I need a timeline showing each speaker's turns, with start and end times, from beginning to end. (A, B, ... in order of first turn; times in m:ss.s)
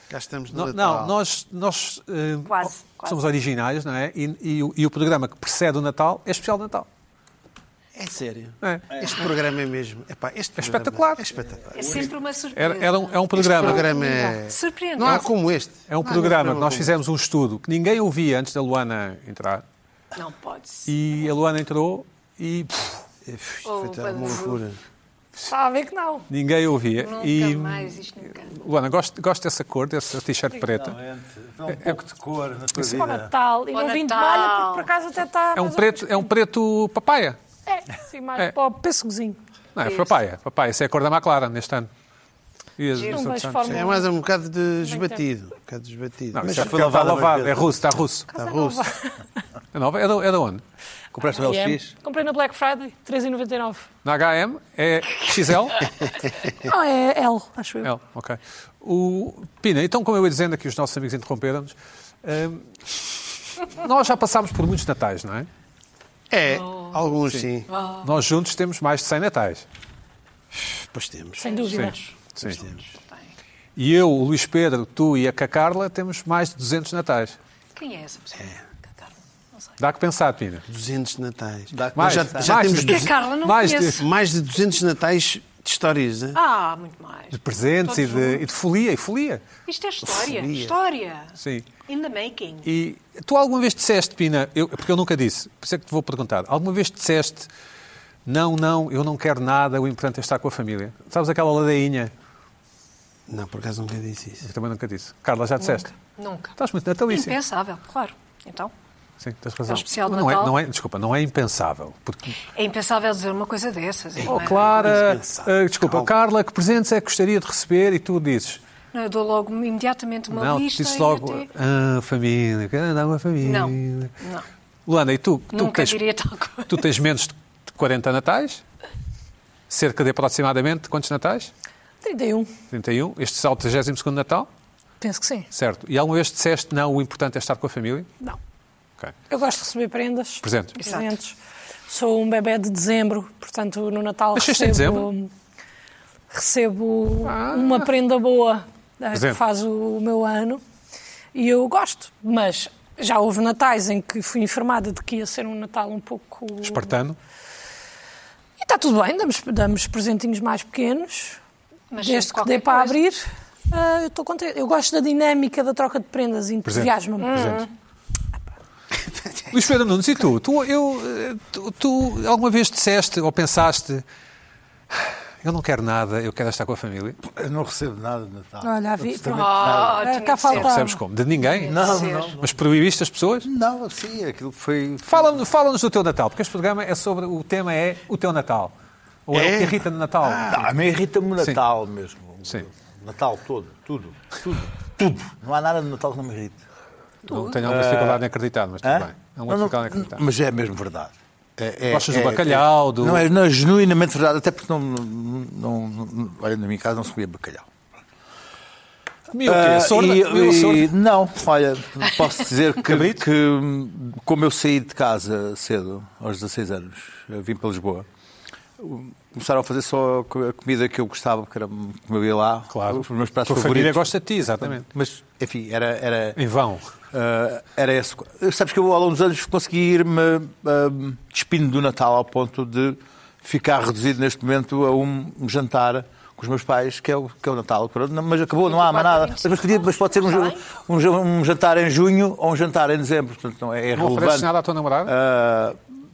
0:00.1-0:01.2 A
0:00.5-0:06.9 B
0:02.5-0:03.2 C
0:08.0-0:12.1 A
0:08.6-0:08.9 B
0:10.6-0:11.2 B
0:11.7-0:15.3 C
0:12.5-0:13.9 B
0:13.4-0:16.9 A
0:15.9-0:19.6 B
0:20.1-0:20.9 C
0:20.9-0:23.0 B
0:23.2-0:24.8 A
0:23.6-0:24.6 C
0:25.5-0:26.3 D
0:26.3-0:31.0 B
0:27.0-0:28.6 C
0:30.7-0:33.3 E
0:31.7-0:32.0 B
0:32.9-0:36.3 D
0:33.7-0:34.9 C
0:35.6-0:37.4 B
0:37.7-0:39.4 D
0:39.8-0:41.9 B
0:39.8-0:40.2 C
0:42.8-0:43.8 B
0:43.0-0:43.2 C
0:43.0-0:44.1 D
0:43.7-0:47.0 A
0:44.8-0:45.2 D
0:46.3-0:48.3 B
0:46.5-0:47.7 E
0:48.3-0:48.8 A
0:48.4-0:49.2 D
0:49.7-0:50.6 B
0:51.1-0:51.9 E
0:51.4-0:53.9 D
0:54.0-0:55.9 B
0:56.6-0:57.9 D
0:57.8-1:03.0 B
1:03.6-1:05.5 B
1:06.3-1:07.7 A
1:06.5-1:07.0 C
1:07.7-1:08.1 C
1:08.0-1:09.6 B
1:10.5-1:11.4 A
1:11.4-1:13.3 C
1:11.4-1:12.0 D
1:11.8-1:12.6 B
1:12.4-1:12.8 A
1:13.8-1:17.4 B
1:17.8-1:19.7 C
1:19.8-1:20.6 B
1:20.7-1:23.2 A
1:21.7-1:23.0 E
1:22.0-1:24.0 B
1:22.7-1:24.0 C
1:24.0-1:26.4 A
1:26.3-1:28.4 C
1:27.3-1:29.5 B
1:29.7-1:32.7 C
1:30.0-1:30.7 A
1:31.4-1:31.7 B
1:32.6-1:37.5 B
1:38.2-1:42.1 B
1:43.3-1:44.4 A
1:44.4-1:45.9 B
1:45.6-1:46.6 C
1:46.6-1:47.4 B
1:47.1-1:48.7 C
1:49.2-1:52.3 B
1:49.7-1:50.6 C
1:52.6-1:54.7 C
1:54.2-1:56.1 A
1:54.2-1:58.6 B
1:58.9-2:01.5 C
2:00.3-2:04.1 B
2:03.4-2:04.5 C
2:04.9-2:06.0 B
2:05.5-2:06.9 C
2:06.7-2:08.6 B
2:09.7-2:11.5 B
2:12.0-2:12.5 D
2:12.7-2:14.5 B
2:15.0-2:15.5 D
2:15.5-2:18.1 B
2:19.3-2:21.4 D
2:20.4-2:20.9 B
2:21.9-2:25.3 D
2:24.3-2:25.1 B
2:26.3-2:30.6 D
2:27.2-2:27.9 B
2:29.1-2:29.4 B
2:31.3-2:36.9 D
2:36.6-2:37.2 B
2:38.6-2:41.4 D
2:41.9-2:43.0 C
2:42.0-2:47.7 D
2:46.6-2:47.7 B
2:47.2-2:47.7 C
2:49.5-2:54.0 B
2:54.9-2:57.2 B
2:57.2-3:00.1 E
2:58.6-3:01.0 D
2:59.3-3:00.8 C
3:00.5-3:01.8 B
3:01.4-3:02.3 C
3:01.6-3:02.5 E
3:02.4-3:03.5 B
3:03.4-3:05.4 E
3:05.1-3:08.7 B
3:09.3-3:10.6 B
3:09.3-3:10.7 A
3:10.4-3:16.6 E
3:17.3-3:20.2 B
3:17.6-3:18.2 E
3:18.8-3:27.7 E
3:21.9-3:23.2 B
3:29.3-3:30.9 B
3:29.4-3:38.1 E
3:32.9-3:33.2 B
3:38.8-3:44.1 E
3:42.7-3:44.9 B
3:44.6-3:46.4 E
3:46.4-3:46.9 B
3:47.1-4:04.5 E
3:58.7-4:00.6 C
4:04.0-4:05.1 B
4:05.0-4:05.8 E